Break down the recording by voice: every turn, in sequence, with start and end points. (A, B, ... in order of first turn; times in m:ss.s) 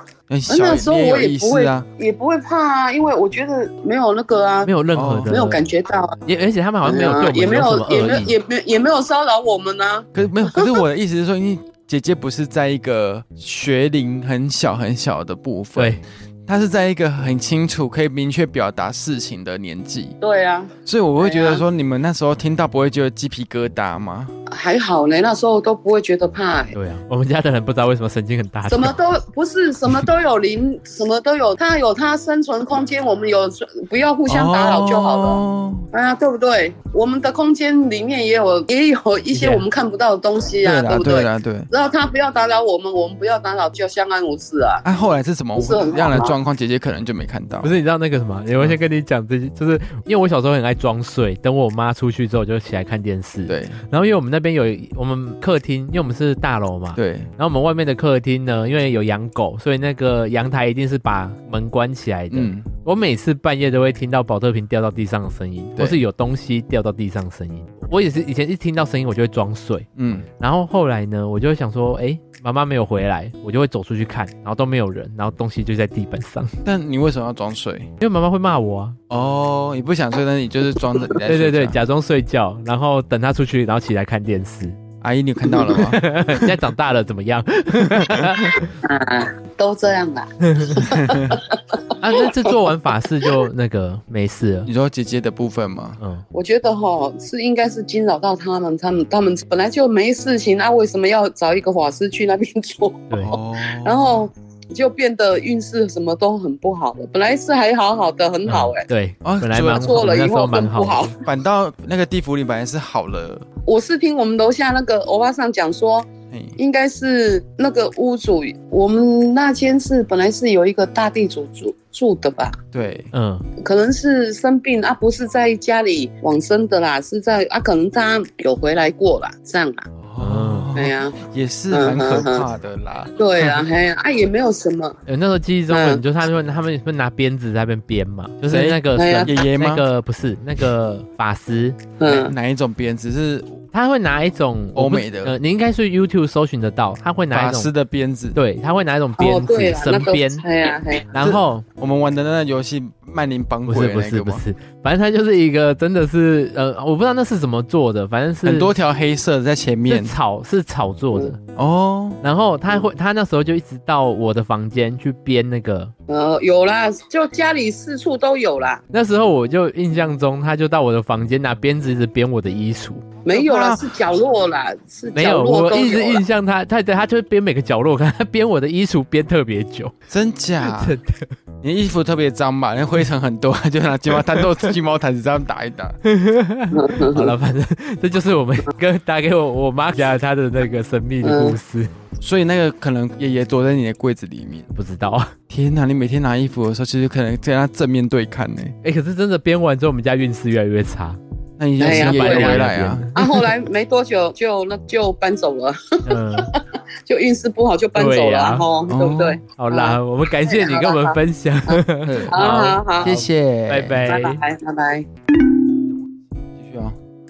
0:00.3-0:01.9 A
0:00.5-0:04.7 B
0:04.6-0:05.6 C
0:04.9-0:05.4 A
0:05.2-0:06.2 B
0:06.2-0:08.3 C
0:06.8-0:10.8 B
0:10.1-0:20.2 A
0:15.8-0:16.0 C
0:20.2-0:21.6 B
0:20.9-0:24.3 A
0:24.5-0:26.8 B
0:26.7-0:29.0 C
0:28.7-0:44.8 B
0:34.3-0:35.9 A
0:39.3-0:39.6 C
0:40.6-0:41.7 A
0:44.8-0:47.7 A
0:45.6-0:46.4 B
0:47.6-1:09.9 C
0:53.5-0:53.8 A
0:57.0-0:57.3 A
1:02.3-1:02.7 A
1:05.8-1:06.0 A
1:10.0-1:10.2 A
1:10.4-1:16.5 C
1:16.6-1:17.9 A
1:18.0-1:19.0 C
1:19.1-1:21.8 A
1:21.2-1:24.8 C
1:25.0-1:26.5 A
1:25.7-1:28.6 C
1:27.8-1:28.4 A
1:28.8-1:32.5 B
1:30.5-1:30.8 C
1:30.8-1:31.4 A
1:32.0-1:34.7 C
1:34.7-1:36.0 A
1:36.3-1:48.8 B
1:43.2-1:44.2 A
1:48.5-1:51.1 C
1:49.2-1:49.9 A
1:49.7-1:51.2 B
1:51.2-1:53.4 A
1:53.7-2:02.6 B
1:56.3-1:56.6 A
2:02.7-2:03.1 A
2:03.1-2:03.5 C
2:03.6-2:09.9 B
2:10.0-2:13.1 A
2:10.2-2:10.7 C
2:10.8-2:11.2 B
2:11.7-2:12.4 B
2:13.2-2:15.0 B
2:15.1-2:21.8 C
2:15.7-2:16.0 B
2:18.5-2:19.8 A
2:19.0-2:19.3 B
2:22.0-2:22.3 B
2:22.0-2:23.6 A
2:23.7-2:27.7 C
2:24.8-2:25.4 A
2:27.3-2:28.4 A
2:28.4-2:30.4 C
2:29.2-2:31.1 B
2:31.1-2:31.6 C
2:31.2-2:34.4 A
2:33.7-2:38.7 C
2:38.4-2:40.1 A
2:39.9-2:41.4 C
2:41.6-2:42.2 A
2:42.2-2:45.9 C
2:46.1-2:48.8 B
2:48.9-2:53.1 C
2:53.2-2:56.2 B
2:53.3-2:53.9 A
2:55.1-2:59.9 C
3:00.1-3:01.0 A
3:00.6-3:01.3 C
3:01.6-3:06.0 A
3:06.0-3:11.9 C
3:06.7-3:07.3 B
3:11.2-3:11.6 B
3:12.2-3:14.7 A
3:14.8-3:15.3 C
3:15.5-3:18.8 A
3:18.8-3:21.2 C
3:21.6-3:23.1 A
3:21.8-3:23.4 C
3:21.8-3:33.2 B
3:26.1-3:26.5 C
3:28.0-3:28.7 C
3:28.9-3:29.4 A
3:29.6-3:34.4 C
3:32.0-3:34.0 A
3:34.1-3:35.1 B
3:36.6-3:37.0 A